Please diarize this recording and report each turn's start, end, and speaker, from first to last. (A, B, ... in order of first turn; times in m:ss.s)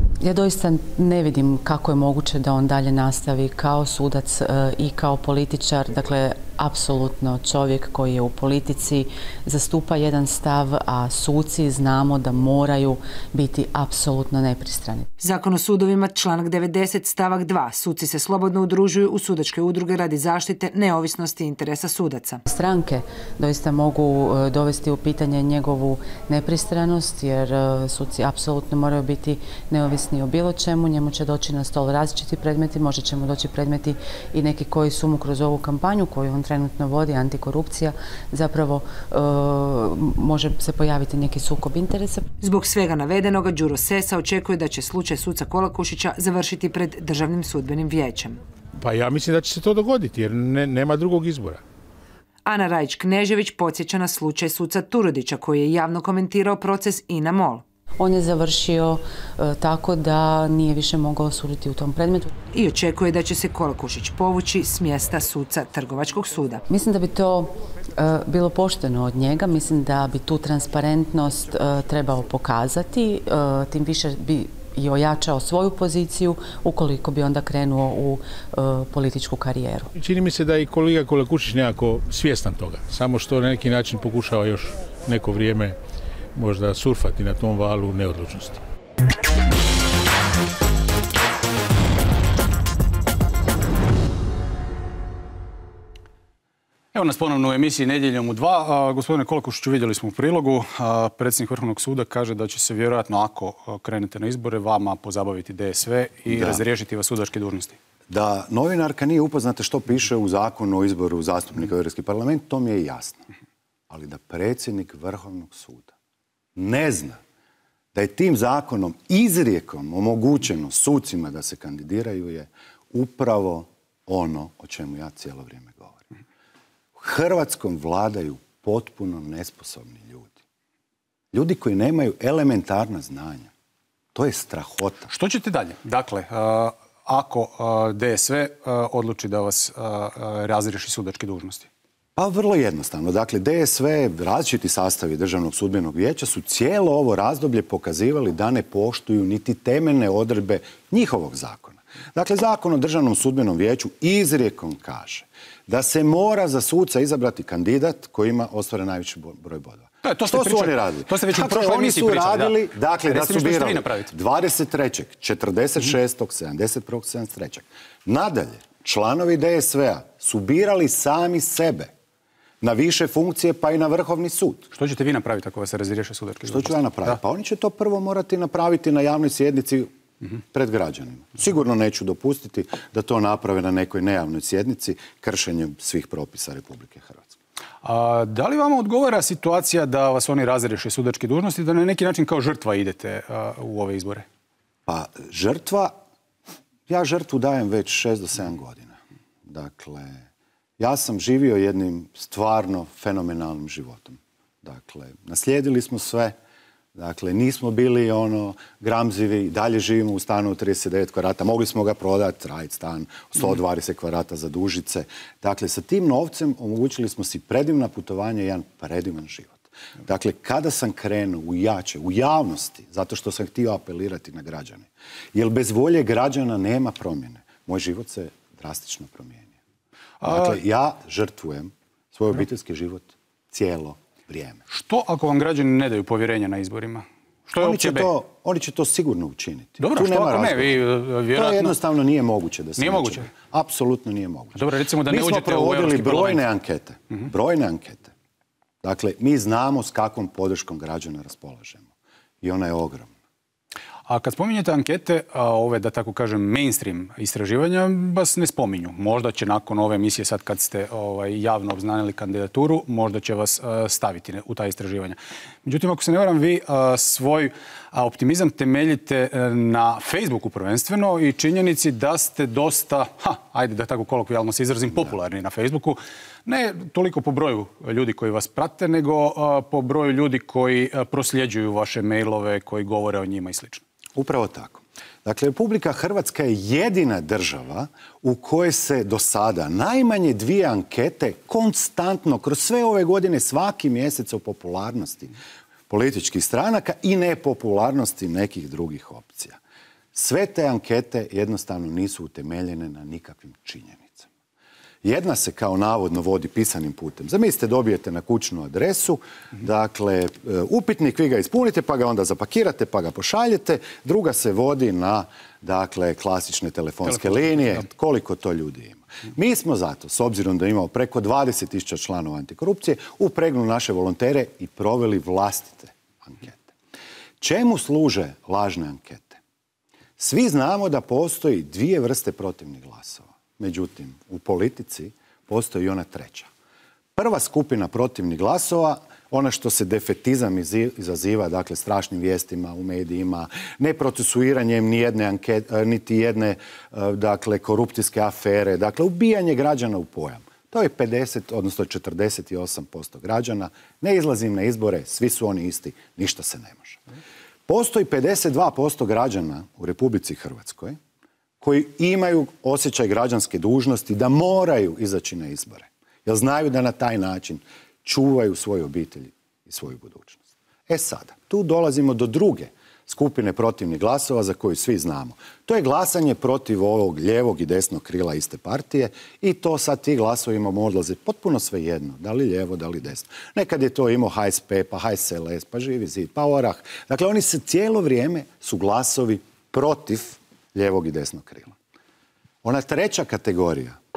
0:00.2-0:15.1 A
0:15.2-0:22.4 B
0:22.5-0:42.3 A
0:42.4-0:48.4 B
0:48.8-0:51.6 C
0:52.4-0:57.6 B
0:58.0-1:02.3 A
1:02.5-1:06.6 B
1:06.7-1:19.9 A
1:20.0-1:25.8 C
1:26.4-1:28.6 C
1:36.9-1:47.8 D
1:46.3-1:46.6 E
1:48.1-1:53.2 E
1:53.9-1:55.9 E
1:56.6-1:57.2 E
1:57.9-2:06.0 E
2:07.0-2:10.4 E
2:11.3-2:13.5 E
2:14.1-2:15.1 E
2:15.1-2:21.7 D
2:22.2-2:51.9 E
2:40.0-2:44.1 D
2:52.6-2:54.7 E
2:54.7-2:57.2 D
2:56.5-2:59.9 E
3:00.5-3:07.4 E
3:07.8-3:14.3 D
3:14.9-3:16.0 E
3:16.9-3:20.3 E
3:20.8-3:26.4 E
3:27.0-3:49.6 E
3:50.2-3:50.6 D
3:50.2-3:54.6 E
3:54.7-3:58.1 D
3:57.6-4:08.1 E
3:59.8-4:01.7 D
4:02.8-4:03.3 D
4:04.6-4:06.4 D
4:08.8-4:11.9 E
4:12.4-4:13.1 E
4:14.1-4:43.8 D
4:44.2-4:55.3 E
4:55.9-4:59.6 E
5:00.1-5:04.3 E
5:05.0-5:26.7 E
5:17.3-5:17.8 D
5:27.4-5:29.4 E
5:30.2-5:36.5 E
5:37.2-5:57.0 E
5:57.7-6:01.0 E
6:01.6-6:31.8 E
6:32.6-6:34.0 E